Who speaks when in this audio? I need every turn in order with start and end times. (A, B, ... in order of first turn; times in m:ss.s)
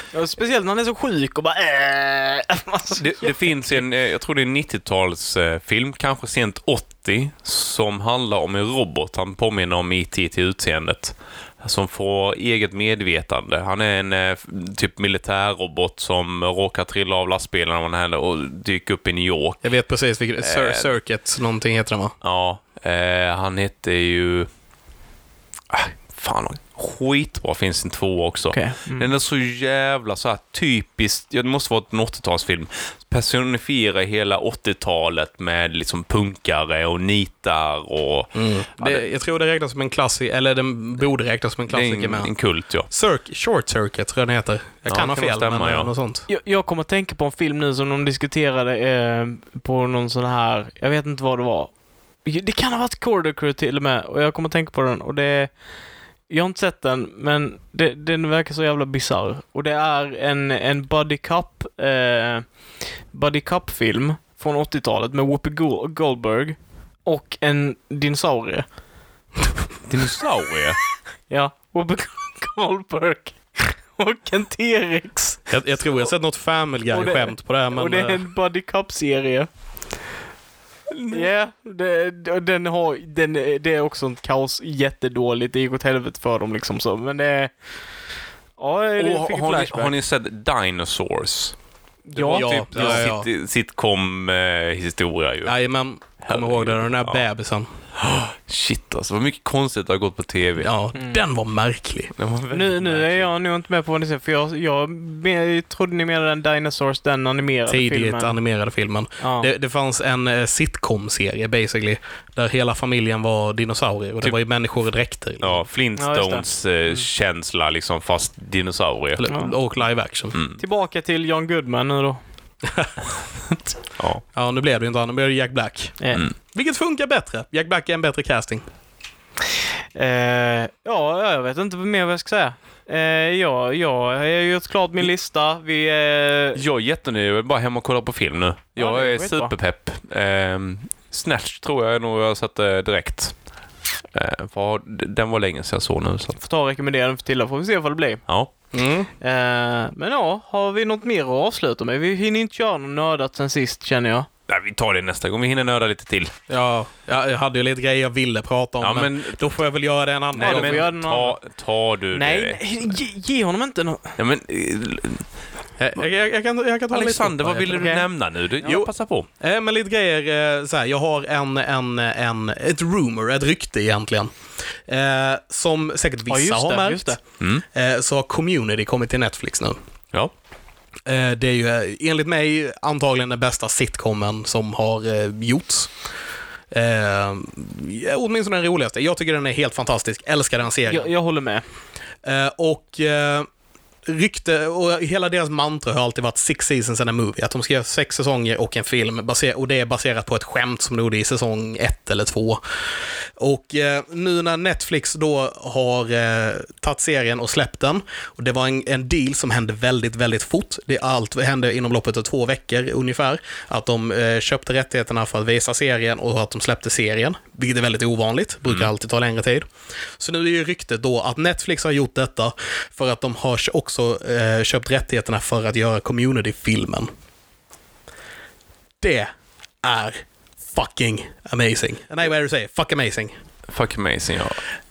0:00.1-0:03.6 A
0:03.0-0:19.6 B
0:19.6-0:22.1 C
0:20.4-0:20.9 B
0:22.2-0:24.5 B
0:25.7-0:39.0 B
0:28.5-0:29.1 A
0:38.3-0:42.3 C
0:41.7-0:42.9 B
0:42.9-0:46.2 C
0:44.9-0:45.9 B
0:46.3-0:51.7 A
0:52.2-0:55.5 A
0:56.3-1:02.5 A
1:03.1-1:08.6 A
1:09.9-1:10.8 B
1:11.3-1:15.5 A
1:15.5-1:18.2 C
1:16.9-1:19.5 A
1:20.9-1:21.3 B
1:21.1-1:27.5 A
1:28.6-1:29.9 A
1:29.0-1:31.5 B
1:32.1-1:33.1 A
1:32.2-1:35.5 B
1:32.3-1:33.2 C
1:35.4-1:37.7 C
1:36.2-1:37.2 B
1:38.0-1:40.7 B
1:40.6-1:42.1 C
1:40.9-1:41.2 A
1:42.2-1:43.3 B
1:42.5-1:48.4 A
1:47.7-1:55.7 C
1:49.2-1:49.5 A
1:55.4-1:59.2 B
1:56.0-1:57.0 A
1:59.2-2:00.4 C
2:00.3-2:00.6 B
2:00.6-2:02.2 A
2:02.6-2:02.9 C
2:04.0-2:04.2 B
2:04.3-2:06.0 C
2:06.5-2:08.6 C
2:09.9-2:16.6 A
2:16.5-2:23.3 B
2:18.8-2:19.5 A
2:24.1-2:26.4 B
2:26.4-2:28.2 A
2:28.7-2:29.1 C
2:29.2-2:34.3 A
2:34.5-2:36.3 B
2:36.5-2:40.8 C
2:38.8-2:39.4 B
2:40.4-2:42.9 B
2:40.4-2:41.4 A
2:42.1-2:44.2 A
2:44.2-2:45.3 B
2:45.8-2:47.9 C
2:46.9-2:49.3 B
2:47.7-2:48.0 A
2:48.6-2:48.9 C
2:49.4-2:54.3 C
2:54.9-2:57.2 C
2:56.3-2:57.2 A
2:57.7-2:59.8 C
3:01.0-3:05.9 C
3:06.7-3:11.1 C
3:10.9-3:11.6 A
3:12.2-3:13.5 C
3:14.0-3:22.6 C
3:23.4-3:39.6 C
3:40.2-3:47.1 C
3:49.0-3:49.3 C
3:49.8-3:53.3 C
3:53.7-3:54.6 B